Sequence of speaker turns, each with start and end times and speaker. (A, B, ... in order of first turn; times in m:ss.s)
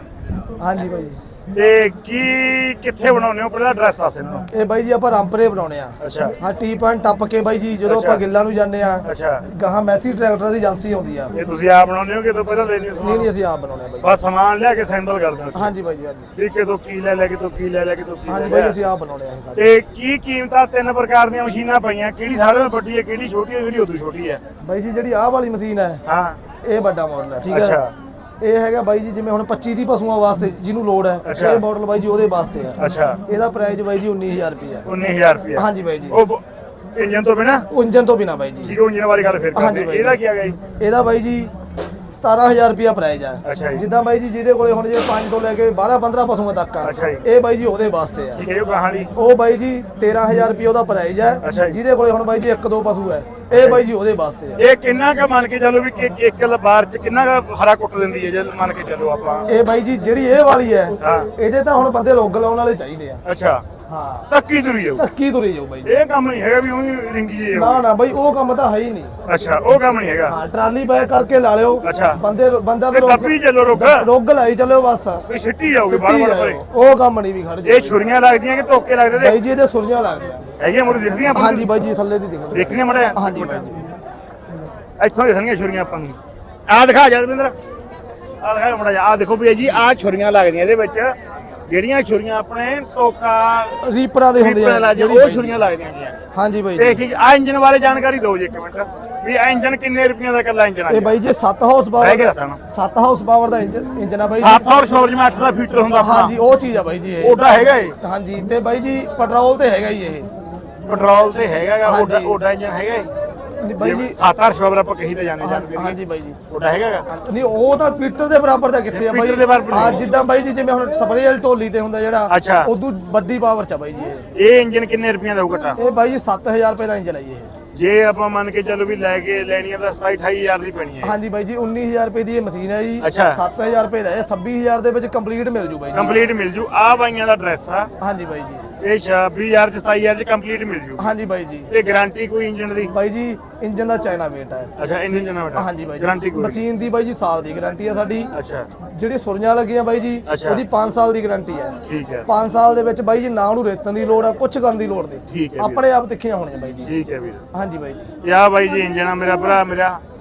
0:00.6-0:01.2 A
0:01.5-0:04.4 B
0:04.5-0:11.3 A
0:06.0-0:06.3 B
0:07.8-0:08.2 B
0:09.0-0:09.4 B
0:11.3-0:13.3 B
0:13.0-0:14.1 A
0:14.0-0:15.7 B
0:15.5-0:16.3 A
0:16.3-0:18.8 B
0:18.3-0:19.6 A
0:19.5-0:24.4 B
0:24.6-0:26.0 A
0:26.0-0:26.4 B
0:26.6-0:27.8 A
0:27.5-0:27.9 B
0:28.4-0:34.9 A
0:31.2-0:31.6 B
0:32.8-0:33.2 B
0:34.8-0:36.4 B
0:35.6-0:36.2 A
0:36.9-0:37.7 B
0:37.7-0:38.8 A
0:38.6-0:40.6 B
0:39.5-0:40.2 A
0:40.8-0:41.5 A
0:42.1-0:48.4 A
0:43.4-0:43.8 B
0:46.8-0:47.2 B
0:48.4-0:49.1 B
0:49.2-0:54.6 A
0:51.4-0:51.8 B
0:53.5-0:53.8 B
0:54.6-0:59.5 B
0:59.5-1:03.2 A
1:01.0-1:01.3 B
1:03.2-1:03.6 B
1:03.9-1:04.3 A
1:04.3-1:05.0 B
1:05.0-1:06.0 A
1:05.8-1:07.8 B
1:07.5-1:09.1 A
1:09.2-1:10.4 B
1:10.3-1:15.3 A
1:11.8-1:12.2 B
1:12.9-1:14.1 B
1:15.3-1:16.6 B
1:15.8-1:18.0 A
1:17.6-1:19.4 B
1:19.2-1:20.5 A
1:20.6-1:21.7 B
1:21.3-1:23.9 A
1:22.5-1:23.6 B
1:25.0-1:26.2 B
1:26.7-1:27.5 B
1:28.4-1:31.1 B
1:31.7-1:33.8 B
1:33.8-1:35.6 A
1:34.3-1:36.2 B
1:36.3-1:37.0 A
1:36.8-1:41.2 B
1:40.9-1:44.6 A
1:42.0-1:42.6 B
1:44.4-1:46.3 B
1:45.9-1:47.4 A
1:47.2-1:48.0 B
1:48.0-1:50.3 A
1:50.9-1:53.1 B
1:51.8-1:52.4 A
1:53.6-1:54.2 A
1:53.8-1:57.0 B
1:55.4-1:56.4 A
1:57.1-2:04.2 A
1:58.9-2:00.1 B
2:02.3-2:02.7 B
2:04.3-2:05.8 B
2:05.8-2:07.5 A
2:07.7-2:11.1 B
2:11.0-2:16.2 A
2:13.0-2:13.4 B
2:15.9-2:17.9 B
2:18.0-2:18.7 A
2:18.8-2:21.1 B
2:21.0-2:21.7 A
2:21.7-2:22.9 B
2:22.9-2:24.7 A
2:24.8-2:26.6 B
2:25.5-2:28.3 A
2:28.3-2:28.7 B
2:28.8-2:36.9 A
2:30.2-2:30.6 B
2:31.8-2:32.3 B
2:35.3-2:35.8 B
2:36.8-2:37.4 B
2:37.5-2:38.1 A
2:38.2-2:40.0 B